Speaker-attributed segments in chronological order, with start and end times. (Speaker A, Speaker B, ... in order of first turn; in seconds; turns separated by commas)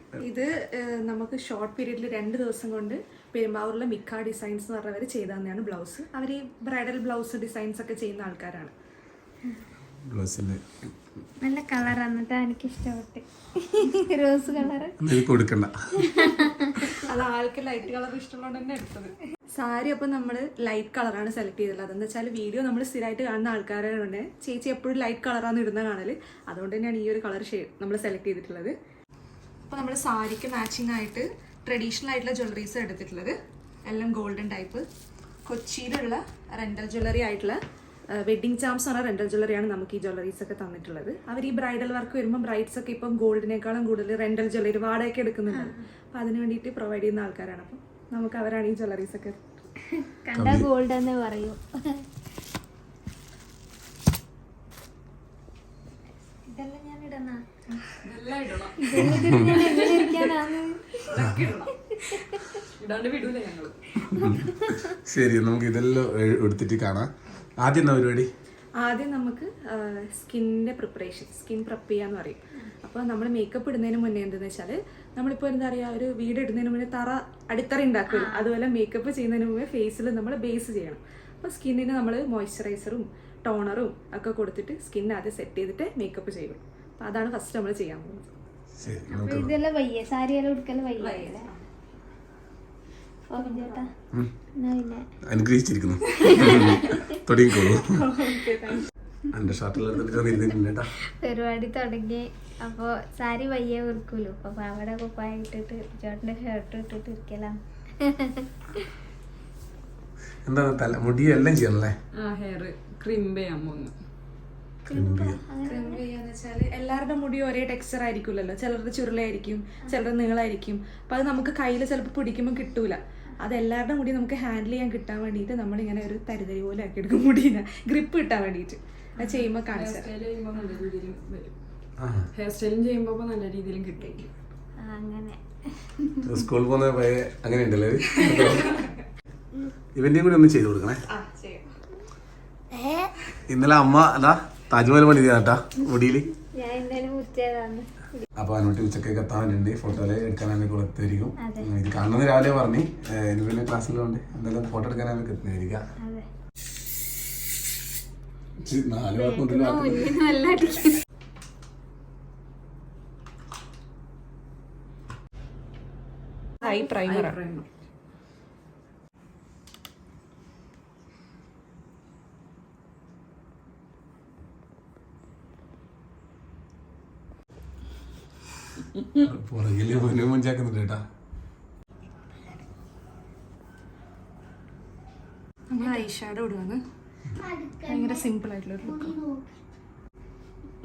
Speaker A: 0.2-8.7, Speaker B: 10.1-10.6, Speaker C: 11.4-15.0, Speaker B: 15.0-15.7, Speaker C: 16.0-17.0, Speaker A: 16.9-28.7, Speaker A: 29.7-33.4, Speaker A: 33.9-34.8, Speaker A: 35.4-37.6, Speaker A: 38.1-49.4, Speaker C: 45.5-45.8, Speaker C: 50.0-52.0, Speaker B: 50.3-50.7, Speaker C: 56.5-57.4, Speaker D: 58.0-60.2, Speaker C: 58.8-61.0, Speaker B: 59.0-59.7, Speaker A: 61.1-61.6, Speaker D: 61.1-61.7, Speaker C: 61.6-62.6, Speaker D: 62.8-63.9, Speaker C: 64.0-64.9, Speaker B: 64.1-67.1, Speaker B: 67.6-68.3, Speaker A: 68.8-88.2, Speaker C: 78.1-78.5, Speaker B: 88.8-89.5, Speaker C: 89.1-91.5, Speaker A: 91.0-91.6, Speaker C: 93.3-93.9, Speaker A: 93.3-93.8, Speaker C: 94.6-95.0, Speaker B: 95.3-98.0, Speaker A: 96.2-96.9, Speaker C: 96.3-97.0, Speaker A: 97.7-98.8, Speaker B: 99.3-100.9, Speaker C: 101.2-108.5, Speaker B: 110.5-111.9, Speaker D: 112.2-113.9, Speaker C: 114.8-116.0, Speaker B: 114.9-115.4, Speaker A: 115.6-130.8, Speaker D: 129.7-131.5, Speaker B: 132.0-132.3, Speaker D: 132.3-134.3, Speaker A: 134.0-134.2, Speaker C: 134.8-136.3, Speaker B: 136.2-138.8, Speaker A: 138.2-139.0, Speaker B: 139.9-141.0, Speaker A: 141.1-141.7, Speaker B: 143.5-146.3, Speaker C: 146.5-148.2, Speaker B: 148.4-155.8, Speaker C: 151.4-151.7, Speaker B: 158.6-160.2, Speaker C: 159.1-161.0, Speaker A: 166.6-167.4, Speaker D: 166.6-167.7, Speaker B: 179.1-181.0, Speaker A: 185.7-186.8, Speaker C: 187.5-188.1, Speaker A: 187.8-189.2, Speaker C: 189.0-189.2